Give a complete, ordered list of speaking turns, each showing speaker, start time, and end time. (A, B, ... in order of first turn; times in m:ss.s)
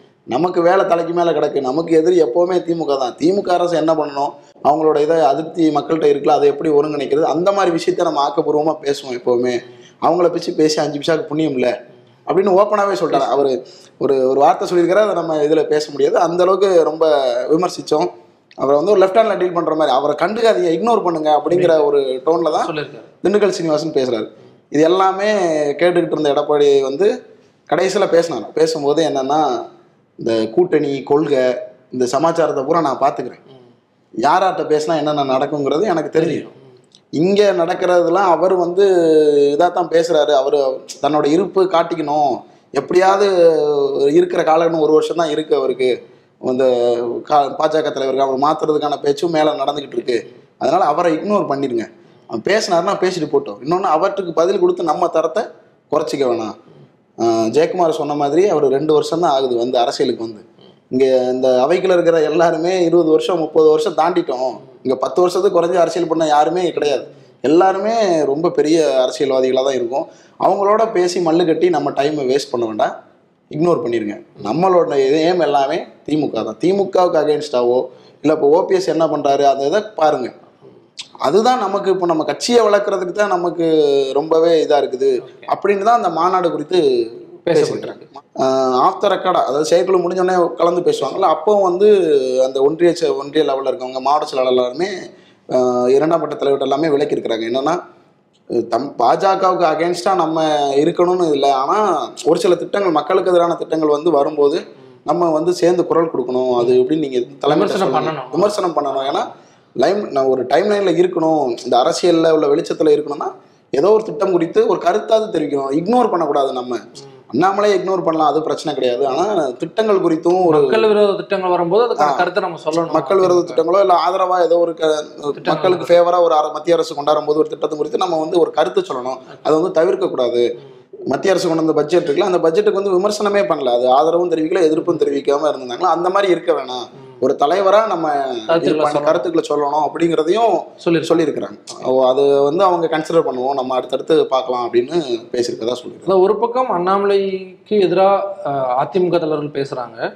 0:00.3-0:11.7 A
0:12.3-0:18.1 A
0:13.1-0:13.5 B
0:18.6-0:22.7 A
0:21.5-0:21.8 B
0:22.5-0:23.1 B
0:23.2-0:27.1 A
0:27.7-0:29.5 A
0:30.2-0:33.4 A
0:34.2-0:36.5 A
0:36.2-0:36.6 B
0:37.2-0:56.5 A
0:57.2-1:12.9 A
1:13.5-1:20.3 A
1:21.2-1:26.8 A
1:27.5-1:28.0 B
1:27.5-1:34.9 A
1:35.5-1:37.8 A
1:38.5-1:49.3 A
1:47.5-1:48.6 B
1:49.8-1:56.8 A
1:57.3-2:00.9 A
2:00.5-2:03.6 B
2:02.0-2:02.3 A
2:02.9-2:10.5 A
2:05.3-2:06.0 B
2:11.1-2:26.1 A
2:18.5-2:19.2 B
2:20.8-2:21.2 B
2:26.0-2:30.0 B